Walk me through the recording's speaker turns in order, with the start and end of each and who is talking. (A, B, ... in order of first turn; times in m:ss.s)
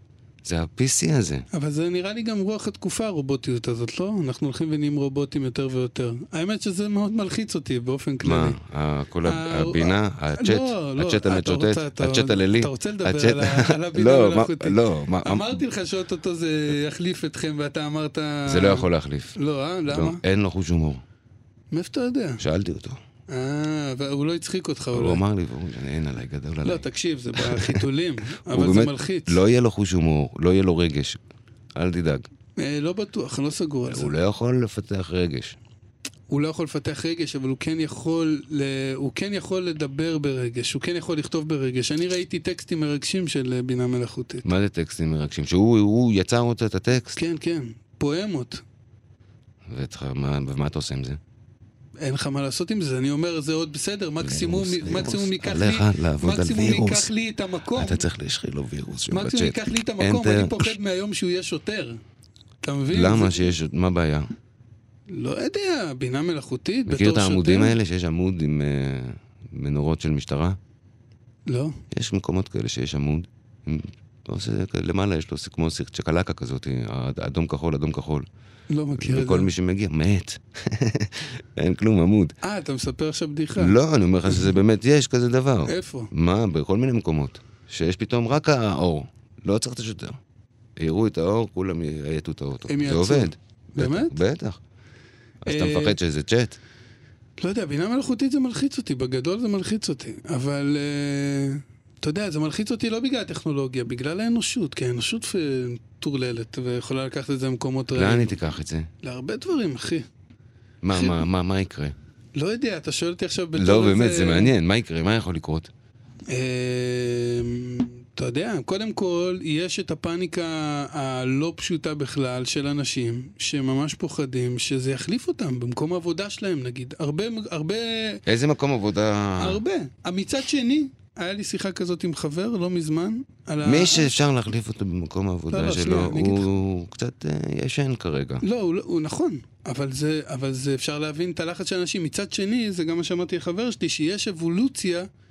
0:00.4-0:01.5 A
0:01.5-0:08.6 B
0:08.2-0:15.6 A
0:09.2-0:20.2 B
0:18.5-0:19.4 A
0:19.9-0:21.0 A
0:21.7-0:22.4 B
0:22.4-0:23.0 A
0:23.3-0:25.2 B
0:24.9-0:26.8 A
0:26.6-0:29.4 B
0:27.4-0:27.8 A
0:28.4-0:31.2 A
0:31.8-0:32.3 A
0:32.6-0:34.1 B
0:33.9-0:35.6 A
0:36.3-0:44.5 B
0:44.4-0:47.2 A
0:47.2-0:48.6 B
0:49.7-0:51.2 A
0:52.0-0:58.1 B
0:54.2-0:57.1 A
0:57.8-1:00.8 A
0:59.1-1:02.0 B
1:02.6-1:03.5 B
1:02.9-1:04.3 A
1:05.1-1:07.8 B
1:06.9-1:10.6 A
1:11.5-1:11.8 B
1:11.9-1:18.3 A
1:18.7-1:19.5 B
1:19.0-1:22.4 A
1:22.4-1:23.8 B
1:23.6-1:30.2 A
1:25.7-1:26.1 B
1:30.8-1:34.6 A
1:32.7-1:34.2 B
1:35.4-1:36.6 A
1:35.5-1:36.0 B
1:37.4-1:48.3 B
1:47.9-1:48.9 A
1:49.0-1:50.1 B
1:50.8-1:52.0 A
1:50.9-1:51.2 B
1:52.4-1:54.5 B
1:53.6-1:55.7 A
1:56.3-2:08.2 B
2:08.3-2:09.6 A
2:09.4-2:14.1 B
2:13.6-2:18.4 A
2:15.5-2:16.5 B
2:18.4-2:25.1 B